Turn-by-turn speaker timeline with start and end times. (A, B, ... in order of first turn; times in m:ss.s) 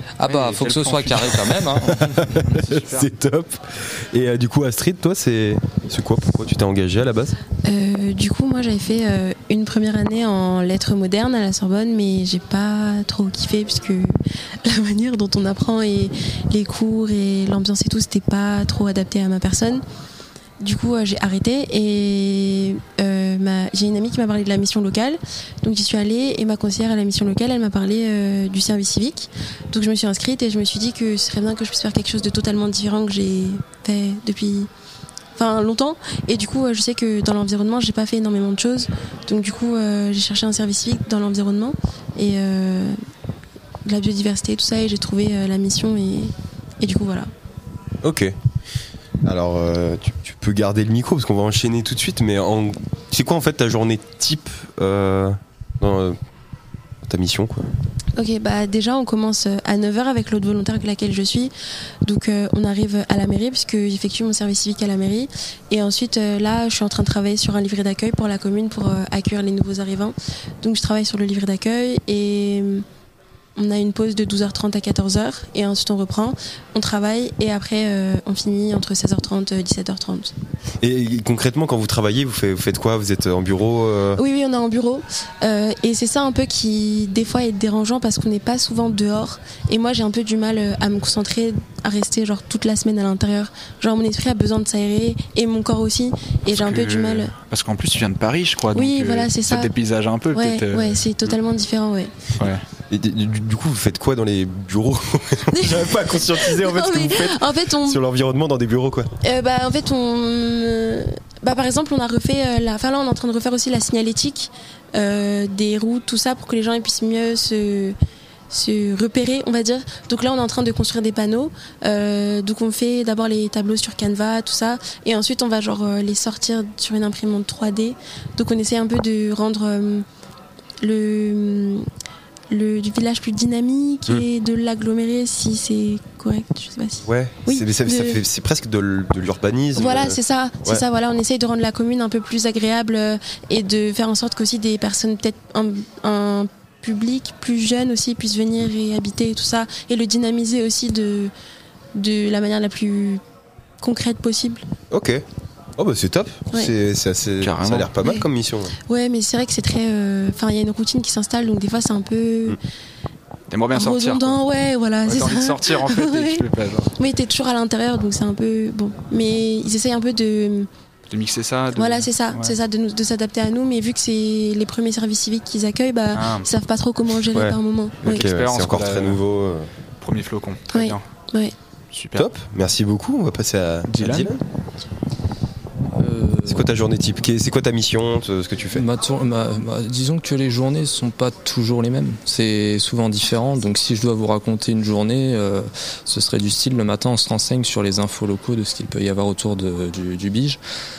0:00.2-0:02.4 A
0:00.2-0:03.1 B
0:02.4-0:07.4 C
0:07.6-0:19.8 D
0:20.6-0:34.7 D
0:35.4-0:43.0 D
0:43.8-0:47.3 D
0:48.0-0:48.3 C
0:49.2-0:56.2 C
0:57.1-0:57.7 C
0:58.2-1:01.5 D
1:02.0-1:12.8 D
1:13.6-1:20.3 D
1:20.8-1:24.2 C
1:24.2-1:37.3 D
1:36.5-1:41.4 B
1:38.7-1:39.7 D
1:40.3-1:42.3 D
1:42.4-1:42.6 B
1:42.9-1:49.1 C
1:45.6-1:48.0 D
1:49.2-1:58.0 D
1:58.5-2:10.0 D
2:10.8-2:11.8 D
2:12.5-2:18.2 D
2:17.0-2:20.8 C
2:19.8-2:31.3 D
2:31.9-2:33.2 D
2:33.8-2:34.6 D
2:34.9-2:35.2 C
2:35.8-2:38.7 C
2:37.4-2:37.9 B
2:38.9-2:42.6 D
2:43.5-2:44.4 B
2:43.7-2:46.4 D
2:45.0-2:46.9 B
2:47.0-2:50.7 D
2:51.1-2:52.5 B
2:51.7-2:58.3 D
2:56.1-2:56.5 B
2:57.3-2:59.7 C
2:58.0-2:59.2 B
3:00.0-3:01.0 B
3:00.7-3:01.5 D
3:01.9-3:02.3 B
3:02.2-3:04.4 C
3:03.9-3:04.3 B
3:05.9-3:06.7 A
3:06.5-3:08.8 C
3:08.7-3:20.6 A